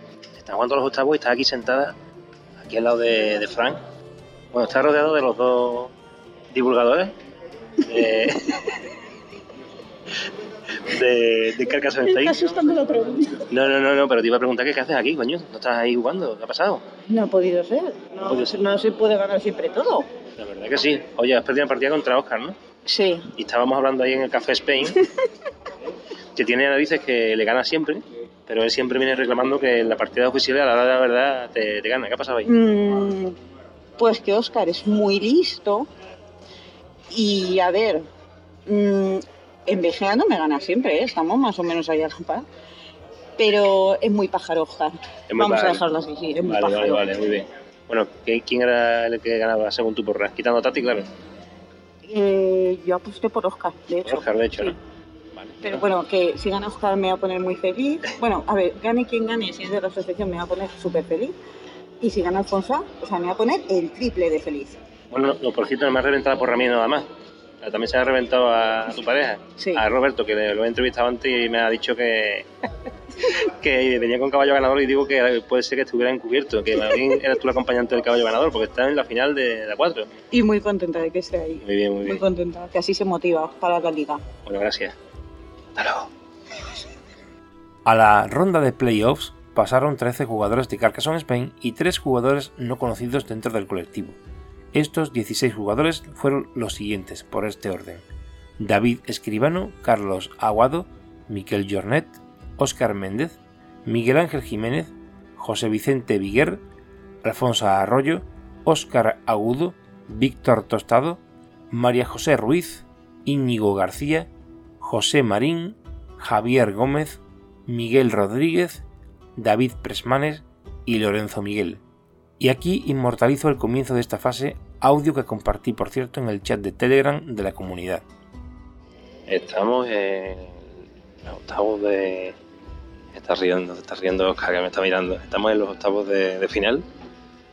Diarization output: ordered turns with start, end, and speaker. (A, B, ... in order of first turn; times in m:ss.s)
0:00.4-0:01.9 A
0:02.6-0:03.8 A
0:04.5-0:05.9 A
0:06.5-0:07.1 A
0:07.8-0:08.6 A
0:10.9-0:12.4 A
0:12.0-0:13.4 B
0:13.5-0:16.8 A
0:17.1-0:20.1 B
0:20.4-0:22.6 A
0:22.8-0:23.2 B
0:23.4-0:25.0 A
0:26.4-0:32.5 A
0:32.4-0:33.3 B
0:34.0-0:35.9 B
0:37.1-0:38.0 B
0:38.7-0:42.4 B
0:43.4-0:47.0 B
0:45.3-0:45.9 A
0:46.4-0:51.1 A
0:52.0-0:54.7 B
0:54.0-0:54.8 A
0:55.4-0:55.8 A
0:55.6-1:01.3 B
1:02.0-1:04.8 B
1:05.1-1:07.1 A
1:07.6-1:12.5 A
1:13.6-1:20.1 A
1:20.3-1:24.2 B
1:21.6-1:22.2 A
1:24.4-1:24.9 A
1:25.8-1:26.1 A
1:27.8-1:34.2 C
1:34.7-1:38.0 C
1:38.6-1:46.6 C
1:47.2-1:54.3 C
1:54.8-1:58.8 C
1:59.4-2:01.8 C
2:02.4-2:08.0 C
2:09.3-2:10.6 A
2:11.2-2:12.4 A
2:13.1-2:16.8 A